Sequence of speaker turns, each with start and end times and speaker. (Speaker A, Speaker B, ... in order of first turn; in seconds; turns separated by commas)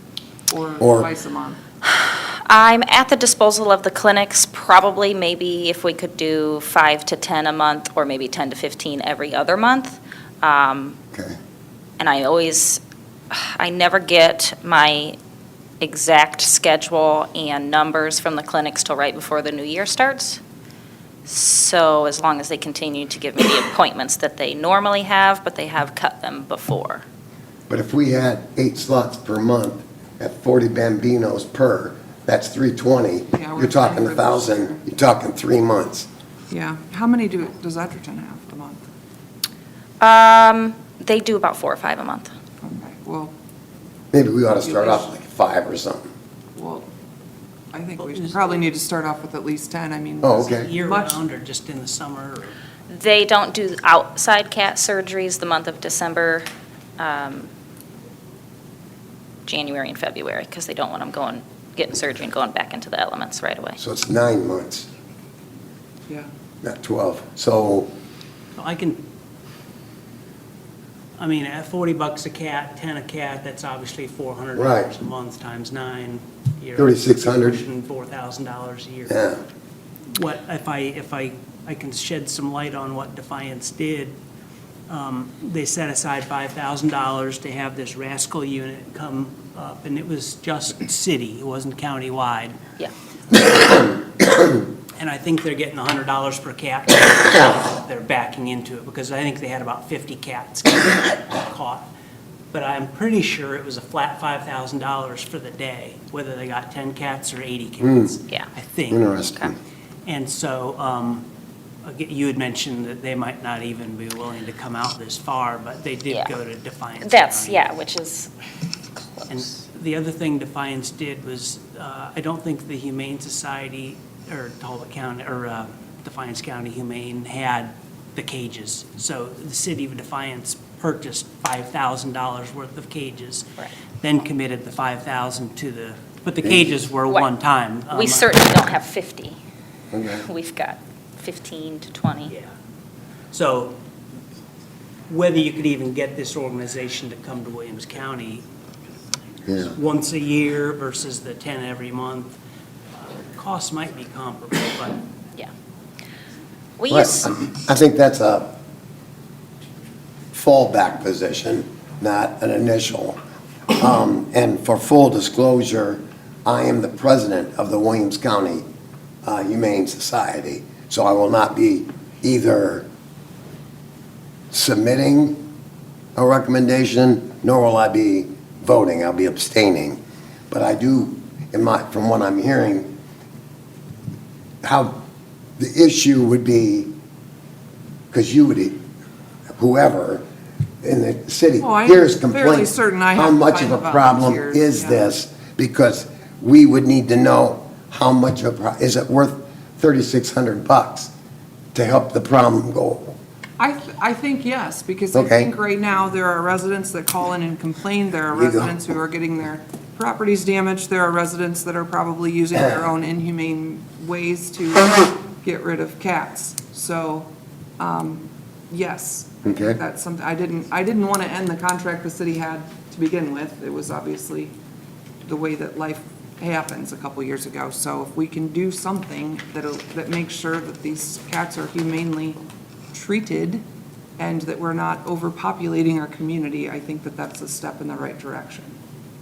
Speaker A: 0.5-1.6, Speaker B: 0.8-1.1, Speaker C: 1.9-11.0, Speaker C: 12.0-15.2, Speaker C: 15.8-20.4, Speaker C: 21.2-27.0, Speaker B: 27.7-36.1, Speaker A: 33.3-34.8, Speaker A: 36.5-38.8, Speaker C: 40.0-42.3, Speaker A: 42.6-43.3, Speaker B: 44.1-46.1, Speaker A: 44.6-45.1, Speaker A: 46.5-46.9, Speaker A: 47.7-51.2, Speaker D: 48.0-48.6, Speaker B: 50.2-50.7, Speaker D: 50.4-52.5, Speaker C: 52.9-56.5, Speaker C: 57.0-57.5, Speaker C: 59.5-63.8, Speaker B: 63.8-64.9, Speaker B: 66.6-67.9, Speaker D: 68.5-69.0, Speaker D: 71.2-79.2, Speaker B: 74.5-74.9, Speaker B: 76.8-77.6, Speaker B: 79.1-79.4, Speaker D: 80.1-84.1, Speaker D: 84.9-92.6, Speaker D: 95.0-101.9, Speaker D: 102.5-109.1, Speaker B: 107.8-108.2, Speaker B: 108.9-109.6, Speaker D: 110.0-111.2, Speaker D: 111.8-117.7, Speaker C: 117.0-118.3, Speaker C: 118.9-119.4, Speaker D: 119.3-133.5, Speaker D: 134.0-138.3, Speaker C: 137.9-139.4, Speaker B: 139.9-140.2, Speaker C: 140.2-142.3, Speaker D: 143.3-143.8, Speaker D: 145.1-148.4, Speaker B: 149.5-149.7, Speaker D: 149.5-152.3, Speaker D: 153.3-154.9, Speaker C: 156.8-157.3, Speaker B: 156.9-158.6, Speaker B: 160.3-163.2, Speaker B: 163.7-168.6, Speaker B: 169.2-172.9, Speaker B: 174.5-175.4, Speaker B: 176.2-182.9, Speaker B: 184.6-185.0, Speaker B: 185.6-186.9, Speaker B: 188.1-188.8, Speaker B: 189.6-190.2, Speaker B: 190.8-201.1, Speaker A: 191.6-195.0, Speaker B: 201.7-203.2, Speaker A: 203.6-217.3, Speaker B: 205.1-205.5, Speaker B: 208.3-208.7, Speaker A: 217.8-224.5, Speaker B: 219.4-219.8, Speaker A: 225.2-232.4, Speaker A: 232.9-233.6, Speaker A: 234.2-238.7